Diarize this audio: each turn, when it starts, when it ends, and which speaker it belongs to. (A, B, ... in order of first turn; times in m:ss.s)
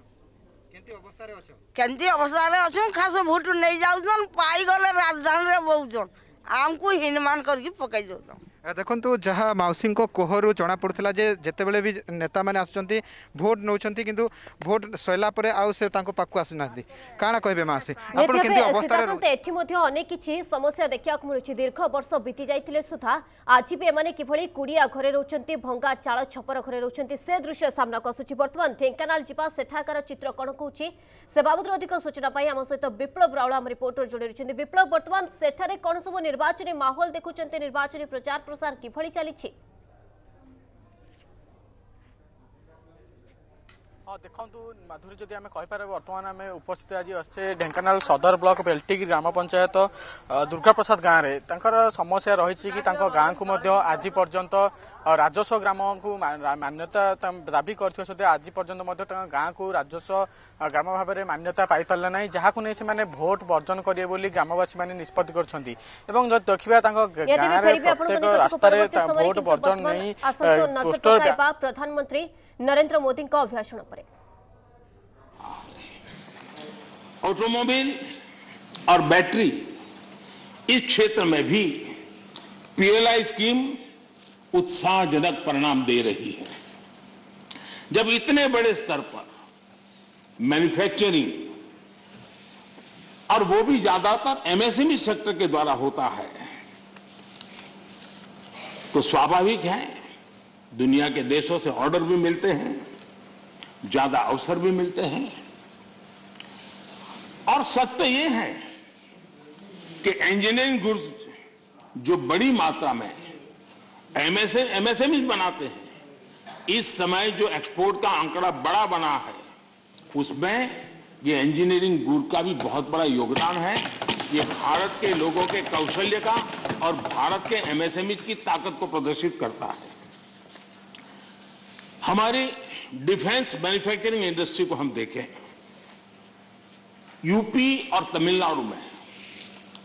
0:00.7-0:01.6 A
0:01.7-0:08.4 B
0:08.6-0:19.2 A
0:18.1-0:39.5 C
0:44.1-1:11.4 D
1:07.2-1:14.1 C
1:15.4-1:15.9 E
1:17.2-1:18.0 E
1:18.9-1:19.6 E
1:20.7-1:21.7 E
1:22.8-1:23.8 E
1:24.5-1:26.5 E
1:27.9-1:29.3 E
1:30.4-1:31.5 E
1:33.3-1:36.4 E
1:38.9-1:39.9 E
1:40.7-1:42.8 E
1:43.8-1:45.3 E
1:47.5-1:48.6 E
1:50.0-1:51.3 E
1:52.0-1:53.3 E
1:54.1-1:55.9 E
1:56.7-1:59.4 E
2:00.1-2:09.9 E
2:12.0-2:15.3 E
2:17.2-2:18.8 E